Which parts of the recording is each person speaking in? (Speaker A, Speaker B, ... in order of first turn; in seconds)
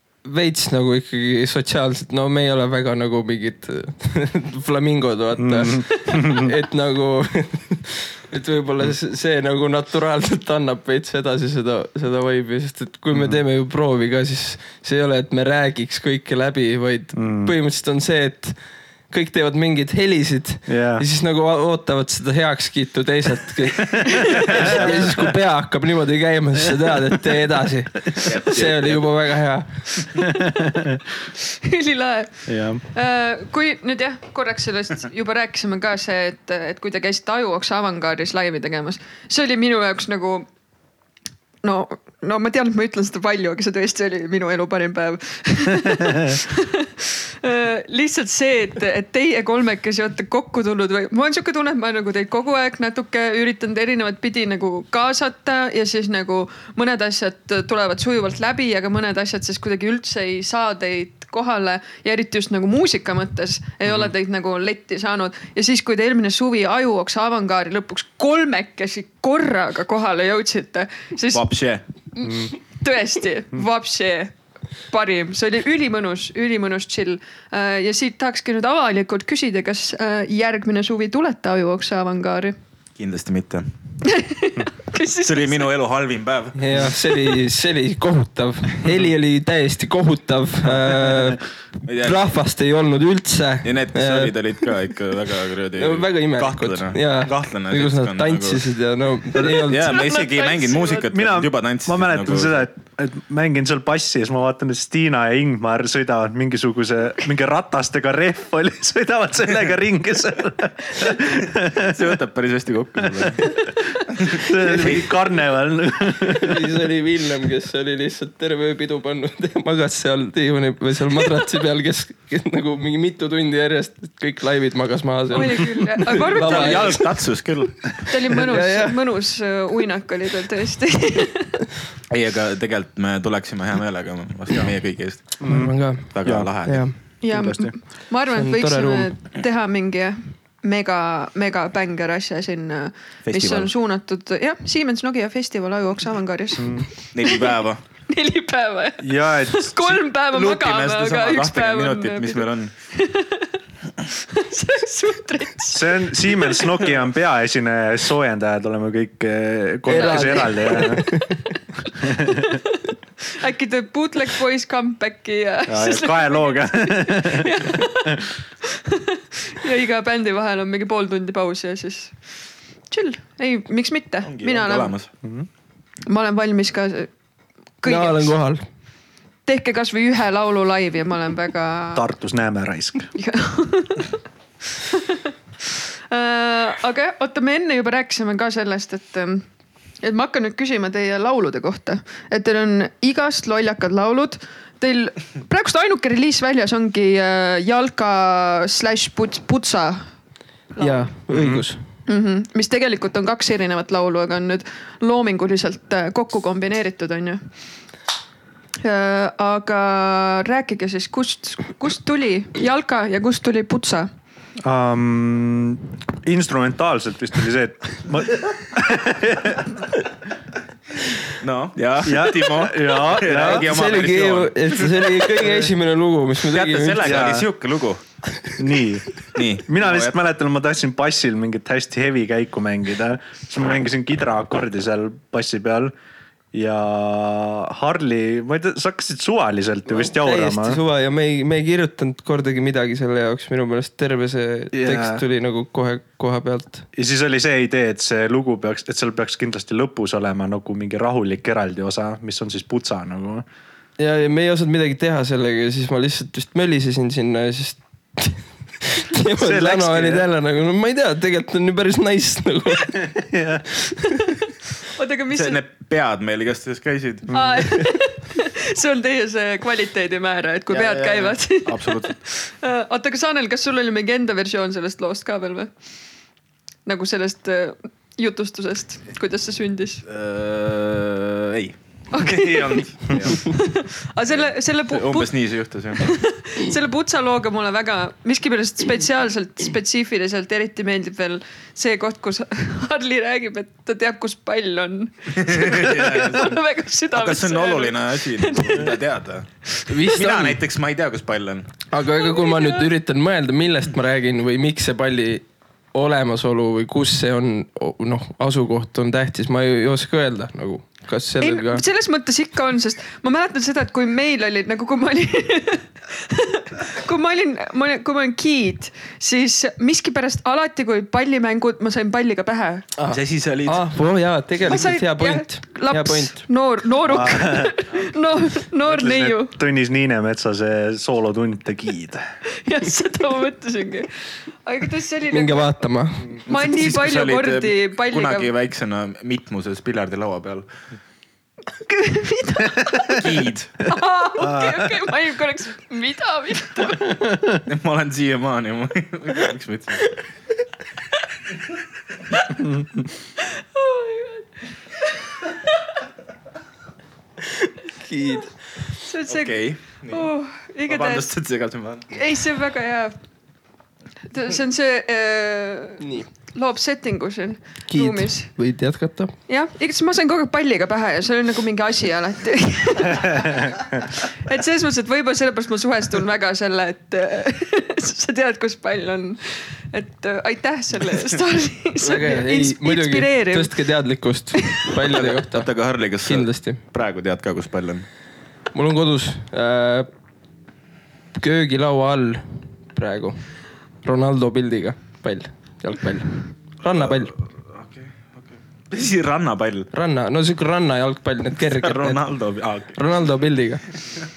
Speaker A: 0.2-18.6, 19.1-29.7, 86.5-94.3, 95.8-100.0, 116.2-127.1, 128.3-129.0, 135.4-136.9, 138.3-139.1, 159.9-161.5, 177.8-178.6, 200.8-201.8, 223.4-227.3, 239.9-246.8, 254.0-263.0, 263.9-264.3, 299.9-300.6, 301.9-311.8, 323.0-326.4, 335.3-336.3, 357.5-358.5, 366.0-366.3, 367.9-369.3, 382.0-385.7, 386.2-386.8, 388.7-390.1, 391.3-393.4, 394.0-397.3, 399.9-402.2, 402.9-403.8
Speaker B: 5.4-6.5, 13.1-13.4, 17.1-17.5, 20.7-21.1, 23.8-25.2, 30.2-31.0, 32.5-32.8, 72.2-72.5, 91.1-91.3, 101.1-112.1, 113.0-113.6, 114.2-116.7, 135.4-136.5, 137.3-137.7, 146.6-146.9, 149.0-150.0, 155.7-161.1, 161.9-162.6, 165.7-168.3, 175.2-175.5, 181.9-183.1, 201.3-201.6, 214.6-219.8, 222.0-223.7, 227.0-227.5, 228.6-229.1, 229.6-235.9, 236.5-240.8, 244.7-245.2, 246.9-253.4, 259.4-260.3, 263.1-263.6, 327.0-327.8, 328.8-332.2, 344.4-345.0, 347.1-347.6, 352.6-353.0, 373.3-373.8
Speaker C: 24.1-24.4, 31.4-40.5, 41.6-71.5, 72.2-74.3, 74.9-82.5, 84.0-85.7, 99.8-101.1, 125.3-127.1, 128.0-131.6, 137.2-153.5, 154.1-156.8, 159.9-161.1, 162.1-162.8, 163.3-172.2, 172.9-174.9, 176.1-177.1, 177.8-178.3, 179.4-182.1, 183.1-184.2, 184.8-189.4, 190.0-200.1, 200.7-201.1, 202.1-207.4, 208.8-214.1, 264.9-265.6, 267.3-275.7, 276.9-280.0, 282.1-285.3, 285.9-299.0, 302.2-302.8, 311.4-322.9, 324.6-329.6, 332.6-334.1, 334.6-335.8, 336.5-338.5, 341.9-347.1, 353.4-354.5, 355.0-355.6, 359.0-361.3, 362.1-363.1, 364.3-368.5, 369.5-383.7
Speaker D: 28.2-29.0, 71.3-71.8, 83.0-83.7, 85.2-86.9, 91.8-92.2, 93.6-98.6, 99.3-102.7, 111.2-115.1, 126.3-128.1, 132.1-135.4, 136.1-136.9, 143.2-143.7, 147.1-147.8, 150.3-152.7, 174.2-175.1, 221.4-225.6, 226.5-228.0, 229.3-230.1, 265.3-267.4, 270.7-272.1, 280.1-283.6, 284.3-286.1, 295.3-296.6, 297.1-299.5, 300.1-301.7, 323.1-323.8, 336.5-340.7, 343.1-343.8, 347.6-350.2, 359.3-360.3, 360.9-362.1, 385.0-388.1, 396.8-399.9, 401.6-403.0